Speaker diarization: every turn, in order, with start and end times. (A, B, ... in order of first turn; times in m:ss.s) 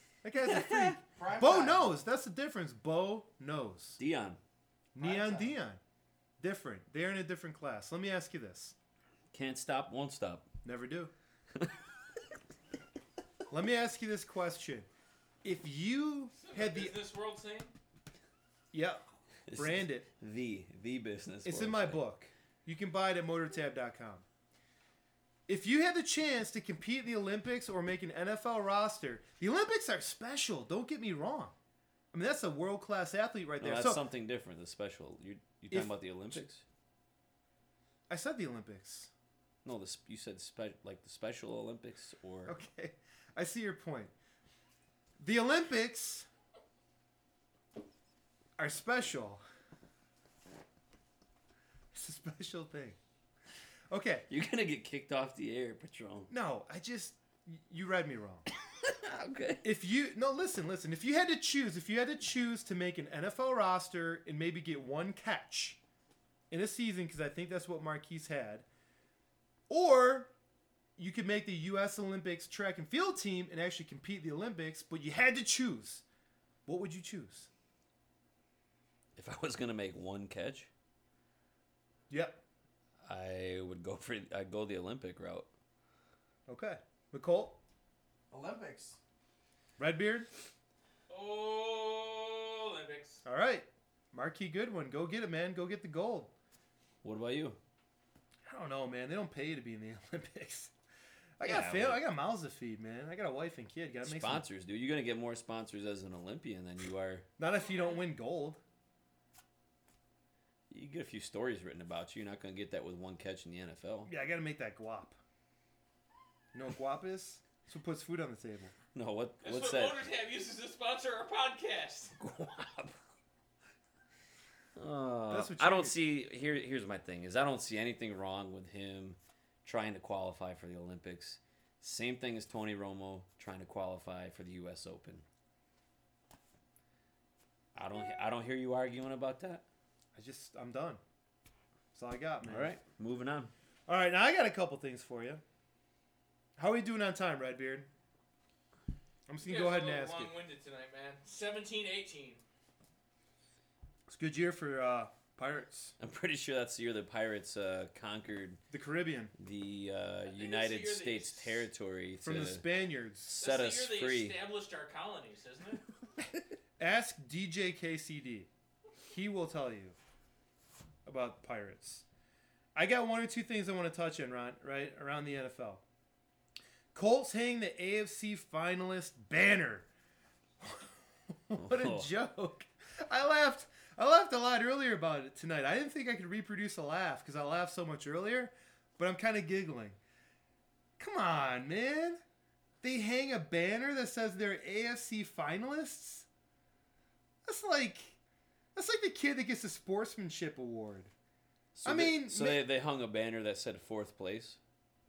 0:00.2-0:04.0 A
0:00.4-0:01.0 B
0:01.1-0:02.0 C
0:04.0-0:04.4 B
0:04.9-0:05.8 A
0:05.0-0:05.6 C
0:06.4-0:08.8 A
0:09.3-0:10.5 B
0:10.6-0:11.1 A
0:13.5-0:14.9 A
0:15.4-0:17.0 A
0:16.4-0:17.7 D
0:18.7-0:19.0 A
0:19.5-0:22.0 B
0:19.5-0:20.1 A
0:21.4-0:24.2 A
0:25.5-0:31.5 A
0:32.1-0:34.0 A
0:33.6-0:36.6 B
0:35.7-0:36.4 A
0:38.1-0:39.1 A
0:39.6-0:42.5 B
0:42.4-0:44.1 A
0:45.2-0:46.3 A
0:48.6-0:49.4 A
0:51.9-0:53.0 A
0:53.9-0:54.2 A
0:54.3-0:56.3 B
0:56.3-0:58.4 A
0:58.8-0:59.6 B
0:59.6-1:05.8 A
1:06.5-1:08.6 A
1:09.7-1:10.3 A
1:11.0-1:16.0 A
1:16.6-1:17.5 A
1:19.2-1:20.7 B
1:22.1-1:22.4 A
1:23.0-1:25.5 B
1:26.5-1:27.6 A
1:28.3-1:29.0 C
1:29.8-1:30.3 A
1:31.1-1:33.2 D
1:33.2-1:36.3 A
1:37.0-1:37.6 B
1:38.4-1:40.7 A
1:41.4-1:44.4 A
1:41.4-1:42.0 B
1:44.0-1:47.2 B
1:47.4-1:48.6 A
1:50.7-1:54.1 B
1:54.0-1:55.2 A
1:56.5-1:58.7 A
1:58.9-2:00.0 B
1:59.4-2:02.2 D
2:02.2-2:03.0 B
2:04.8-2:15.2 B
2:05.3-2:06.0 A
2:17.7-2:19.6 B
2:20.1-2:21.0 A
2:21.9-2:22.7 A
2:22.4-2:23.5 B
2:23.9-2:25.4 A
2:26.6-2:27.9 A
2:29.3-2:30.3 A
2:29.4-2:32.4 D
2:34.1-2:36.0 A
2:36.0-2:38.6 B
2:38.7-2:39.3 A
2:39.4-2:42.6 B
2:40.2-2:41.7 D
2:42.2-2:43.3 A
2:43.3-2:44.3 B
2:43.4-2:45.8 D
2:46.8-2:48.5 A
2:49.0-2:50.0 A
2:51.0-2:52.0 A
2:52.7-2:55.8 A
2:56.9-2:59.9 A
3:00.6-3:10.0 A
3:01.6-3:02.1 B
3:11.0-3:12.2 A
3:12.8-3:16.3 A
3:17.4-3:18.2 A
3:18.7-3:21.1 A
3:21.7-3:24.6 B
3:21.8-3:22.6 A